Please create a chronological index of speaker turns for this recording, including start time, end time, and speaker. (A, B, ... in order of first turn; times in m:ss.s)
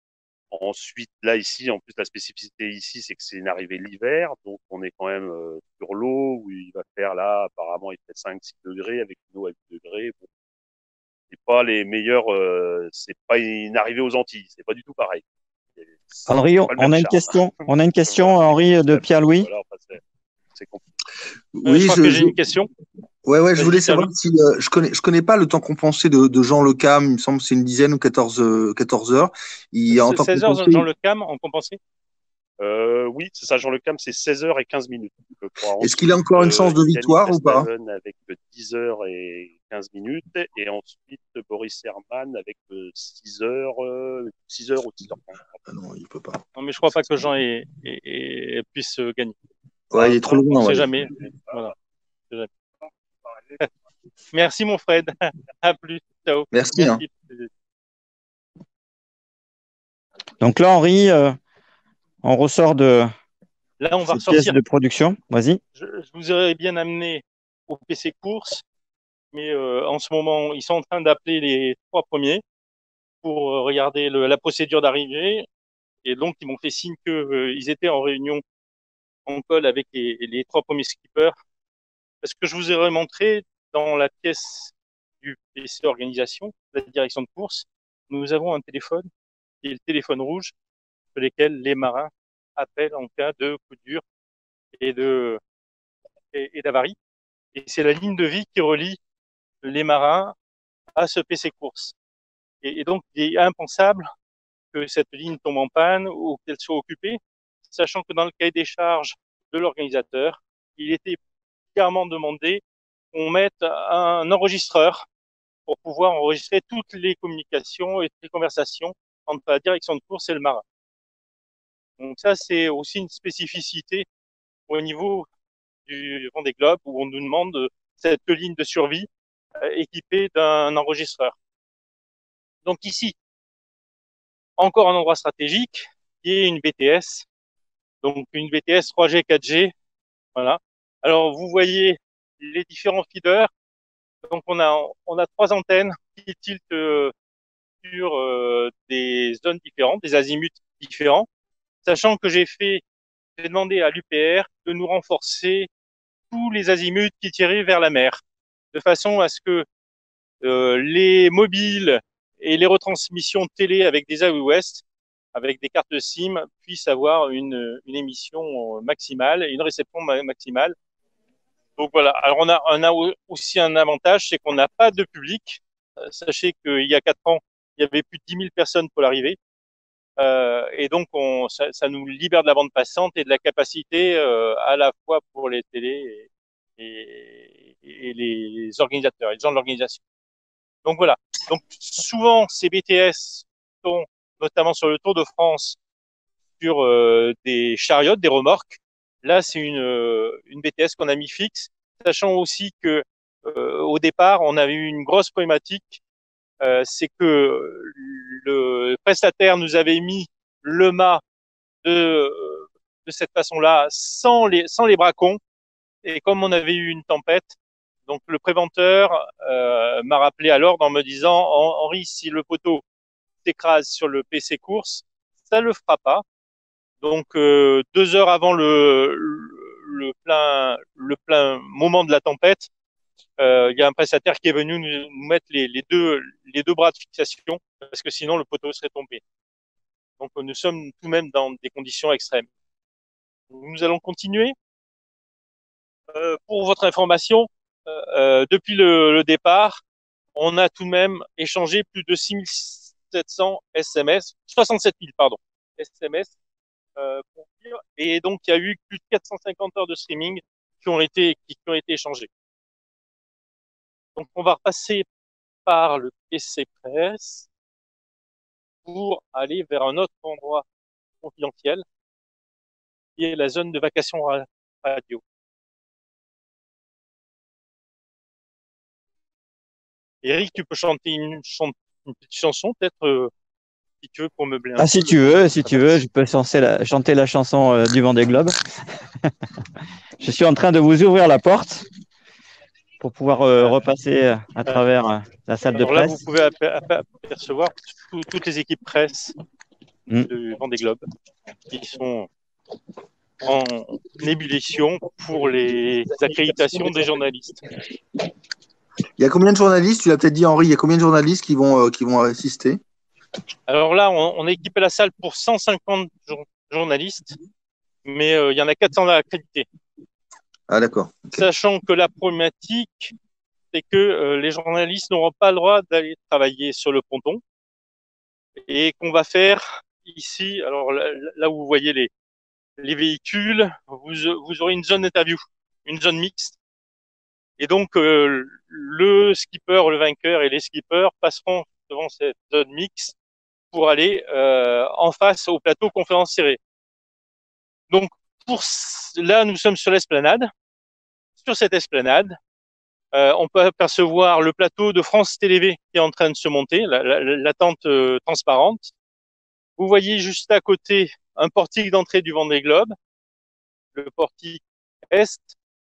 0:00.5-0:10.2 A
0:11.3-0:15.2 A
0:15.8-0:20.0 A
0:16.3-0:19.5 B
0:20.5-0:20.8 A
0:21.6-0:22.3 C
0:21.6-0:22.7 D
0:23.3-0:30.9 C
0:23.6-0:24.1 D
0:29.9-0:31.8 D
0:32.6-0:45.6 A
0:35.8-0:37.7 C
0:45.7-0:46.4 C
0:46.6-0:49.4 D
0:49.9-0:51.1 C
0:50.0-0:51.7 D
0:54.3-0:57.5 D
0:56.5-0:57.0 C
1:00.4-1:01.4 B
1:02.2-1:03.1 B
1:03.8-1:04.6 D
1:04.0-1:05.6 B
1:05.8-1:08.6 D
1:09.3-1:12.4 D
1:13.2-1:15.5 D
1:16.0-1:18.4 D
1:19.3-1:21.4 D
1:22.2-1:29.1 D
1:29.6-1:30.5 D
1:31.2-1:34.0 D
1:34.8-1:35.4 D
1:36.3-1:37.0 D
1:37.5-1:39.0 D
1:39.6-1:40.4 D
1:41.0-1:42.0 D
1:42.6-1:44.1 D
1:44.7-1:51.2 D
1:51.8-1:52.6 D
1:53.1-1:55.1 D
1:55.7-2:00.6 D
2:02.0-2:04.1 D
2:04.7-2:05.3 D
2:05.9-2:09.1 D
2:09.6-2:11.4 D
2:12.6-2:13.2 D
2:14.6-2:17.3 D
2:18.0-2:19.7 D
2:20.4-2:23.5 D
2:24.3-2:27.1 D
2:27.8-2:31.3 D
2:31.8-2:32.8 D
2:33.4-2:35.7 D
2:36.3-2:38.2 D
2:38.7-2:39.7 D
2:40.4-2:44.8 D
2:45.4-2:50.8 D
2:51.8-2:59.4 D
3:00.2-3:10.0 D
3:10.8-3:15.8 D
3:16.6-3:26.0 D
3:26.6-3:31.2 D
3:31.8-3:35.4 D
3:36.0-3:37.6 D
3:38.1-3:42.8 D
3:43.4-3:46.2 D
3:47.0-3:52.7 D
3:53.4-3:59.2 D
4:00.2-4:02.5 D
4:03.5-4:04.6 D
4:06.1-4:09.8 D
4:10.4-4:16.3 D
4:17.0-4:22.3 D
4:24.2-4:25.1 D
4:25.7-4:27.5 D
4:28.8-4:30.6 D
4:31.2-4:31.8 D
4:33.2-4:35.2 D
4:40.2-4:43.3 D
4:44.0-4:46.0 D
4:44.8-4:48.6 B
4:50.2-4:51.9 B
4:53.0-4:56.2 B
4:55.6-4:59.3 D
5:00.2-5:01.0 D
5:01.7-5:02.3 D
5:03.4-5:07.6 D
5:09.2-5:12.8 C
5:13.7-5:17.4 D
5:18.0-5:19.7 D
5:20.7-5:21.3 C
5:21.3-5:23.1 D
5:23.7-5:27.4 D
5:28.7-5:32.1 D
5:32.8-5:36.6 D
5:37.6-5:43.2 D
5:43.7-5:46.6 D
5:47.9-5:50.5 D
5:51.4-5:52.4 D
5:53.1-5:58.9 D
5:59.8-6:03.0 D
6:04.0-6:05.6 D